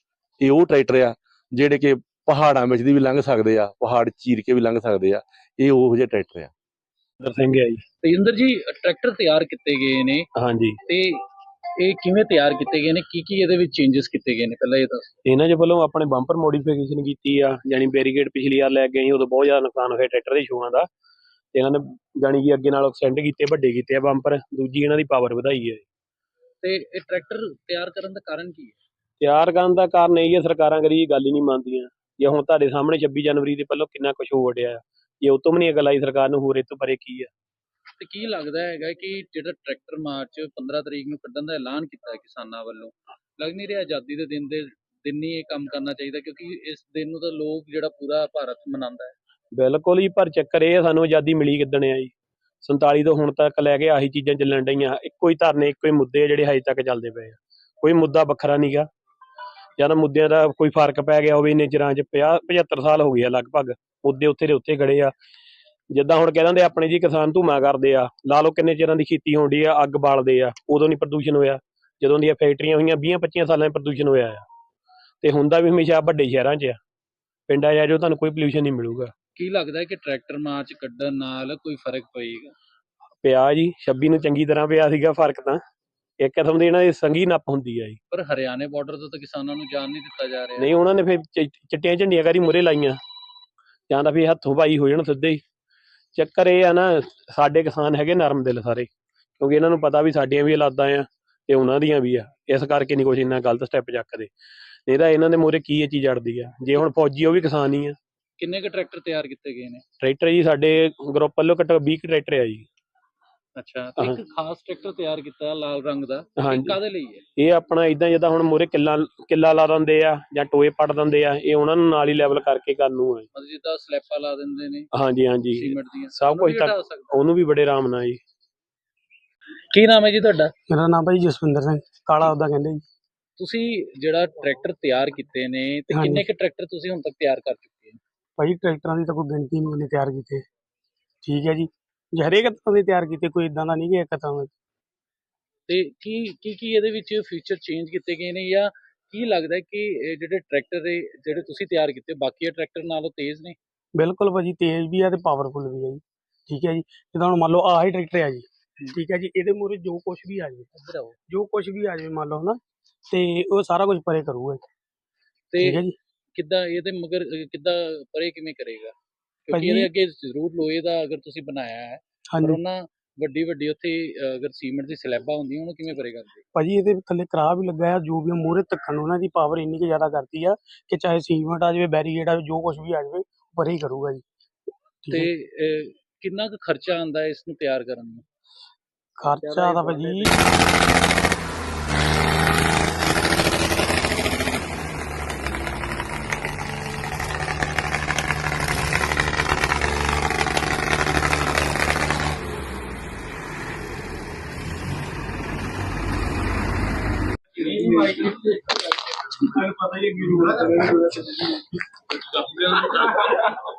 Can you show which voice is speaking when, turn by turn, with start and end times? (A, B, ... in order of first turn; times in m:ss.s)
0:00.4-0:06.5 A
0:07.2-0:07.8 B
0:08.0-0:10.3 C
0:10.4-0:10.8 B
0:10.9-0:11.2 C
0:11.8-0:15.1 C
0:15.2-0:20.9 B
0:21.5-0:25.8 B
0:26.6-0:28.7 C
0:29.2-0:37.3 B
0:38.0-0:49.1 C
0:49.5-0:58.9 B
0:59.8-1:05.1 B
1:05.9-1:14.4 B
1:15.2-1:16.8 B
1:17.5-1:19.1 B
1:19.4-1:22.5 C
1:23.2-1:25.6 B
1:26.2-1:28.0 B
1:28.1-1:30.7 C
1:30.6-1:33.0 B
1:33.9-1:35.4 B
1:36.1-1:44.3 B
1:44.9-1:48.0 B
1:48.4-1:49.8 C
1:50.0-1:52.6 B
1:53.6-1:57.2 C
1:56.4-1:56.8 B
1:57.4-2:03.2 B
2:03.3-2:04.9 C
2:04.9-2:08.2 B
2:05.5-2:07.1 C
2:09.7-2:10.5 C
2:10.7-2:12.8 D
2:13.4-2:18.0 C
2:15.9-2:16.2 D
2:18.4-2:20.4 D
2:21.2-2:24.5 D
2:25.7-2:33.6 C
2:33.9-2:40.7 D
2:40.7-2:41.2 C
2:41.3-2:42.6 D
2:43.1-2:44.6 D
2:45.5-2:45.8 C
2:45.6-2:45.9 D
2:46.3-2:48.9 C
2:49.5-2:56.4 C
2:49.5-2:49.9 D
2:52.3-2:52.6 D
2:56.5-3:04.2 D
3:05.0-3:05.3 D
3:05.1-3:08.2 C
3:09.2-3:10.3 D
3:09.4-3:10.4 B
3:27.6-3:28.5 B
3:29.6-3:31.3 B
3:32.5-3:33.1 B